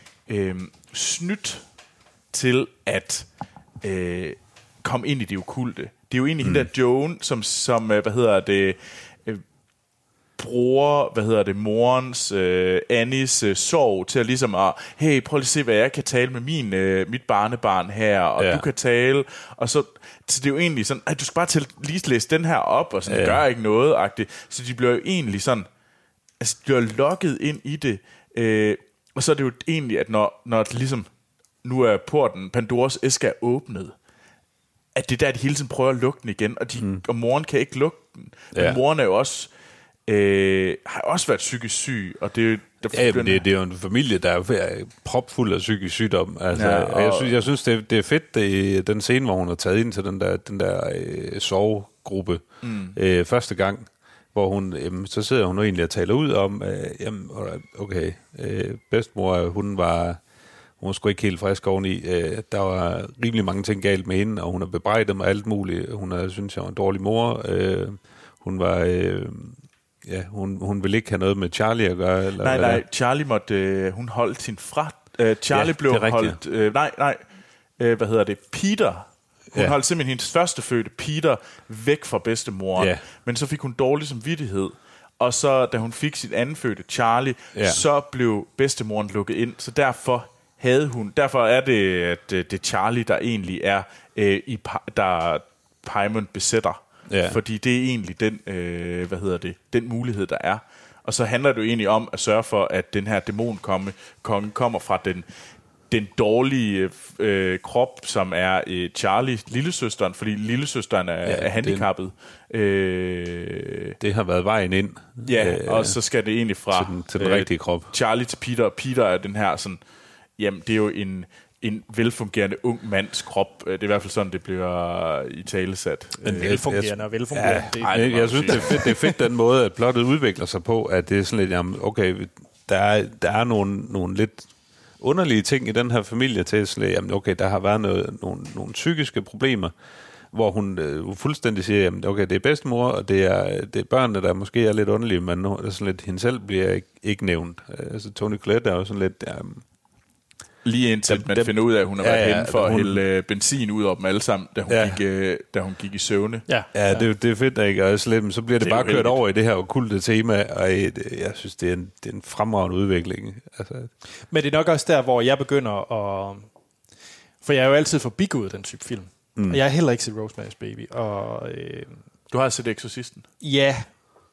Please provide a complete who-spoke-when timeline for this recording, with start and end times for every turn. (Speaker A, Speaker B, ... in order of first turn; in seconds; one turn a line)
Speaker A: 0.3-1.6
Speaker A: 2.3-3.3
Speaker A: 3.8-9.4
Speaker B: 6.4-6.7
Speaker A: 10.4-25.7
Speaker B: 18.4-18.6
Speaker B: 23.1-23.4
Speaker A: 26.4-31.1
Speaker A: 31.6-34.0
Speaker A: 35.0-39.5
Speaker B: 38.5-38.8
Speaker A: 40.1-43.5
Speaker B: 42.9-60.2
Speaker A: 46.5-47.3
Speaker A: 52.6-53.0
Speaker B: 60.8-72.8
Speaker A: 72.4-77.2
Speaker B: 75.5-76.4
Speaker A: 77.8-105.3
Speaker B: 82.8-83.0
Speaker B: 87.5-87.8
Speaker B: 97.1-97.4
Speaker A: 105.9-114.0
Speaker B: 111.2-111.9
Speaker B: 114.0-116.0
Speaker A: 115.2-119.8
Speaker B: 116.7-117.9
Speaker A: 120.4-126.6
Speaker C: 126.2-129.1
Speaker B: 126.2-139.7
Speaker A: 127.7-129.0
Speaker B: 140.3-149.7
Speaker A: 150.6-156.5
Speaker B: 151.1-153.0
Speaker B: 154.7-155.0
Speaker C: 156.5-157.1
Speaker B: 156.7-163.9
Speaker A: 158.6-159.2
Speaker C: 164.3-166.5
Speaker C: 167.4-172.0
Speaker B: 169.4-169.6
Speaker A: 172.3-173.3
Speaker C: 173.4-174.0